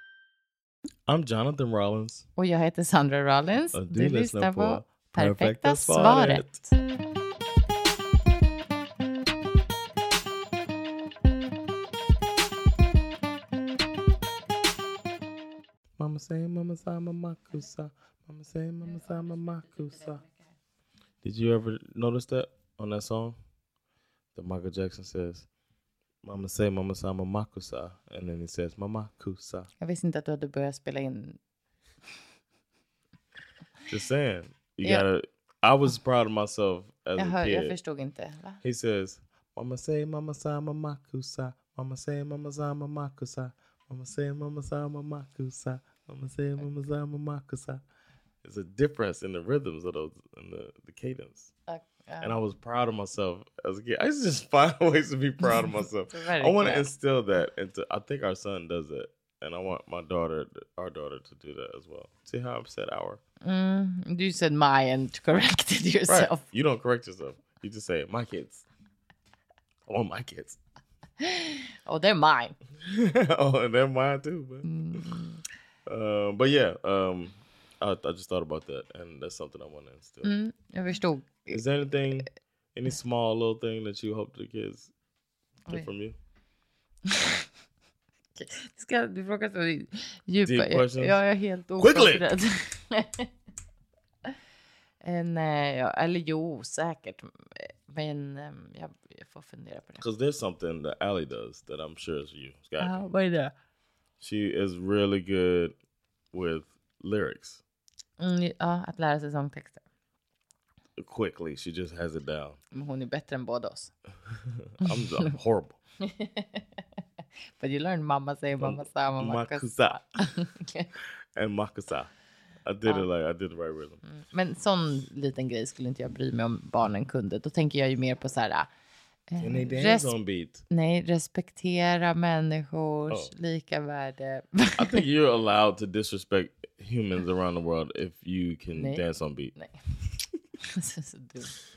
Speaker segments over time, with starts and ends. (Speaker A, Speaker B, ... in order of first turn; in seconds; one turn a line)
Speaker A: 1.1-2.2
Speaker B: 2.4-6.7
Speaker A: 3.7-6.5
Speaker A: 16.0-20.2
Speaker A: 21.2-23.4
Speaker A: 24.4-25.5
Speaker A: 26.2-29.7
Speaker B: 29.8-31.4
Speaker A: 33.9-37.7
Speaker B: 37.1-38.6
Speaker A: 38.6-47.8
Speaker A: 48.4-51.5
Speaker B: 51.7-52.4
Speaker A: 52.2-63.2
Speaker B: 55.4-56.9
Speaker B: 63.4-66.4
Speaker A: 66.1-68.6
Speaker A: 69.9-70.6
Speaker B: 71.2-72.5
Speaker A: 72.8-75.0
Speaker B: 74.6-75.4
Speaker A: 75.9-80.3
Speaker B: 80.2-81.6
Speaker A: 81.5-84.9
Speaker A: 85.7-86.2
Speaker B: 87.1-87.4
Speaker B: 88.3-93.3
Speaker A: 90.4-91.2
Speaker A: 91.8-92.3
Speaker B: 95.0-100.0
Speaker A: 100.0-103.0
Speaker B: 102.8-103.5
Speaker A: 104.2-105.7
Speaker A: 106.3-107.6
Speaker B: 108.2-109.8
Speaker A: 111.0-112.6
Speaker B: 112.7-113.9
Speaker A: 114.6-115.8
Speaker B: 114.8-115.1
Speaker B: 116.0-116.8
Speaker B: 117.6-120.9
Speaker A: 118.6-120.0
Speaker A: 121.3-122.1
Speaker A: 122.7-124.0
Speaker B: 124.0-128.7
Speaker B: 129.3-130.1
Speaker A: 129.4-130.6
Speaker B: 130.7-135.0
Speaker A: 134.8-139.5
Speaker B: 138.7-139.0
Speaker B: 140.7-141.5